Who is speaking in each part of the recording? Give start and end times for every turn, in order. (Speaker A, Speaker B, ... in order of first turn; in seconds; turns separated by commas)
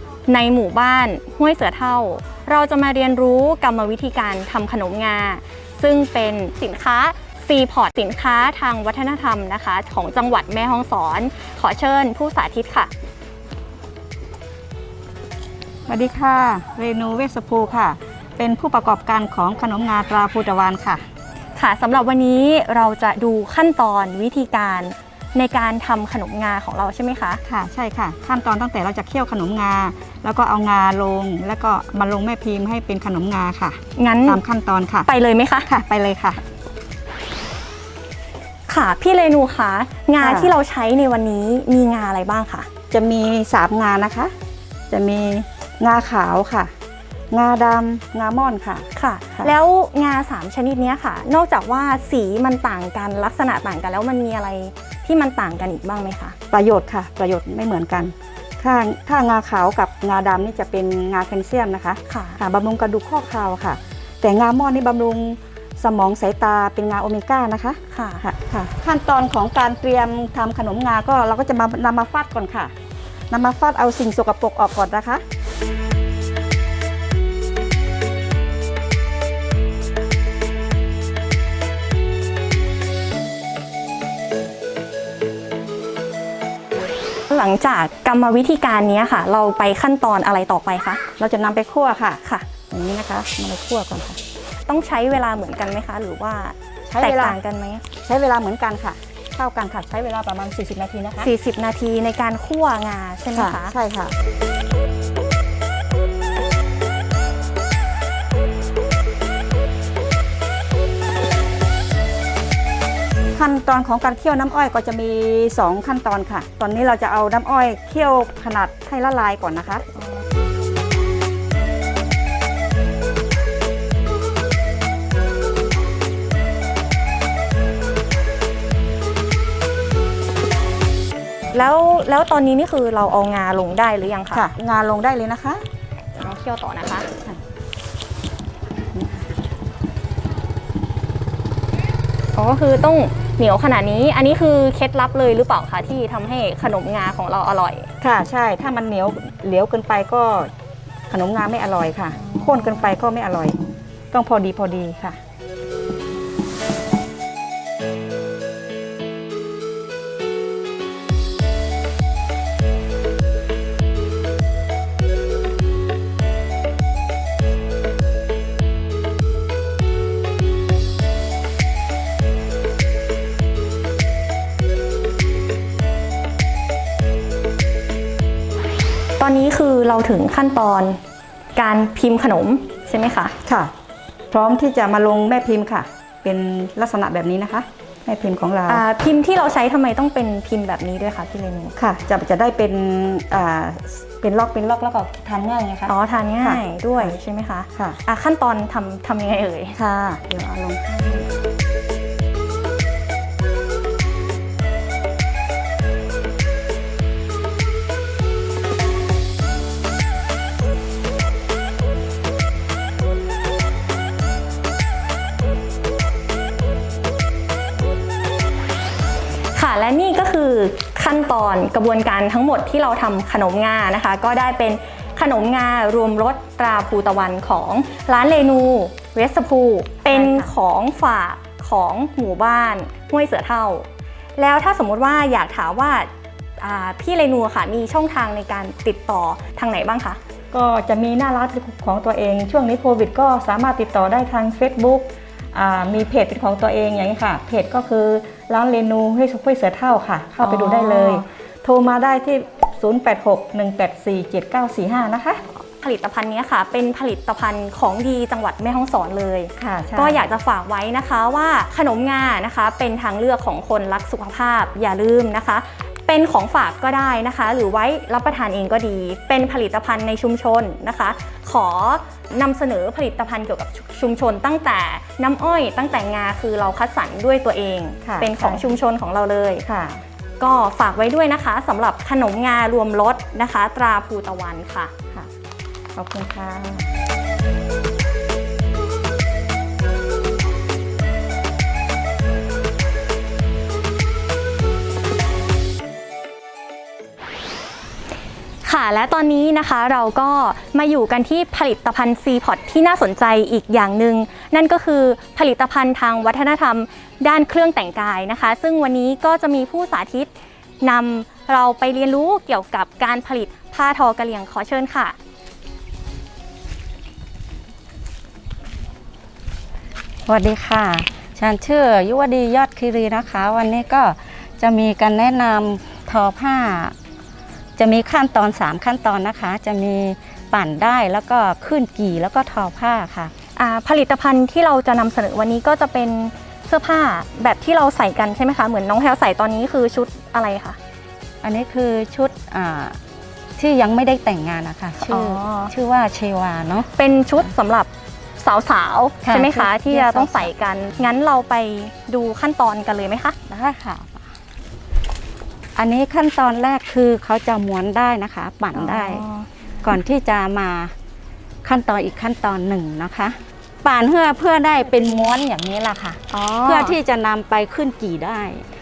Speaker A: 0.3-12.9, Speaker B: 15.9-21.0, Speaker A: 21.6-27.4, Speaker B: 27.4-35.1, Speaker A: 34.0-34.4, Speaker A: 35.0-35.7, Speaker B: 35.7-36.4, Speaker A: 38.7-42.7, Speaker B: 40.2-40.5, Speaker B: 42.9-44.3, Speaker B: 44.9-46.7, Speaker B: 47.3-49.5, Speaker A: 49.0-56.4, Speaker B: 56.5-72.7, Speaker A: 62.1-62.4, Speaker A: 67.9-68.2, Speaker B: 73.3-75.2, Speaker A: 87.3-91.0, Speaker B: 91.2-94.2, Speaker A: 92.2-92.5, Speaker A: 94.7-97.8, Speaker B: 96.9-97.4, Speaker B: 98.0-101.3, Speaker A: 101.2-103.7, Speaker B: 103.3-104.2, Speaker B: 113.3-119.8, Speaker A: 120.0-120.2, Speaker A: 131.5-134.5, Speaker B: 134.3-135.7, Speaker A: 136.2-137.1, Speaker B: 138.9-139.3, Speaker A: 142.3-147.9, Speaker B: 148.0-150.5, Speaker B: 151.1-153.6, Speaker A: 152.2-152.8, Speaker B: 154.1-155.2, Speaker A: 179.2-181.0, Speaker A: 181.6-183.3, Speaker B: 183.5-183.7, Speaker B: 184.3-188.8, Speaker A: 188.7-191.7, Speaker B: 191.8-197.2, Speaker A: 195.9-199.8, Speaker B: 199.8-201.3, Speaker A: 219.6-240.2, Speaker B: 230.1-230.5, Speaker B: 240.5-255.4, Speaker A: 250.4-251.2, Speaker A: 255.7-279.6, Speaker B: 259.6-260.3, Speaker B: 278.1-278.7, Speaker B: 279.7-280.0, Speaker A: 280.4-284.9, Speaker B: 285.9-286.9, Speaker A: 298.6-315.2, Speaker C: 320.3-326.9, Speaker B: 321.6-322.4, Speaker B: 323.6-324.2, Speaker B: 325.7-326.3, Speaker C: 327.8-333.3, Speaker B: 327.9-333.2, Speaker A: 333.6-340.8, Speaker C: 341.4-343.0, Speaker B: 341.6-342.9, Speaker C: 343.6-346.9, Speaker B: 343.9-345.0, Speaker A: 345.0-345.7, Speaker B: 346.2-346.7, Speaker A: 346.9-353.4, Speaker C: 349.3-350.3, Speaker C: 353.5-354.2, Speaker C: 355.8-359.2, Speaker B: 356.0-356.6, Speaker B: 357.4-358.0, Speaker A: 358.7-360.0, Speaker C: 359.9-360.9, Speaker B: 360.4-360.9, Speaker C: 361.6-362.5, Speaker B: 362.4-368.4, Speaker A: 366.3-367.0, Speaker C: 366.9-368.6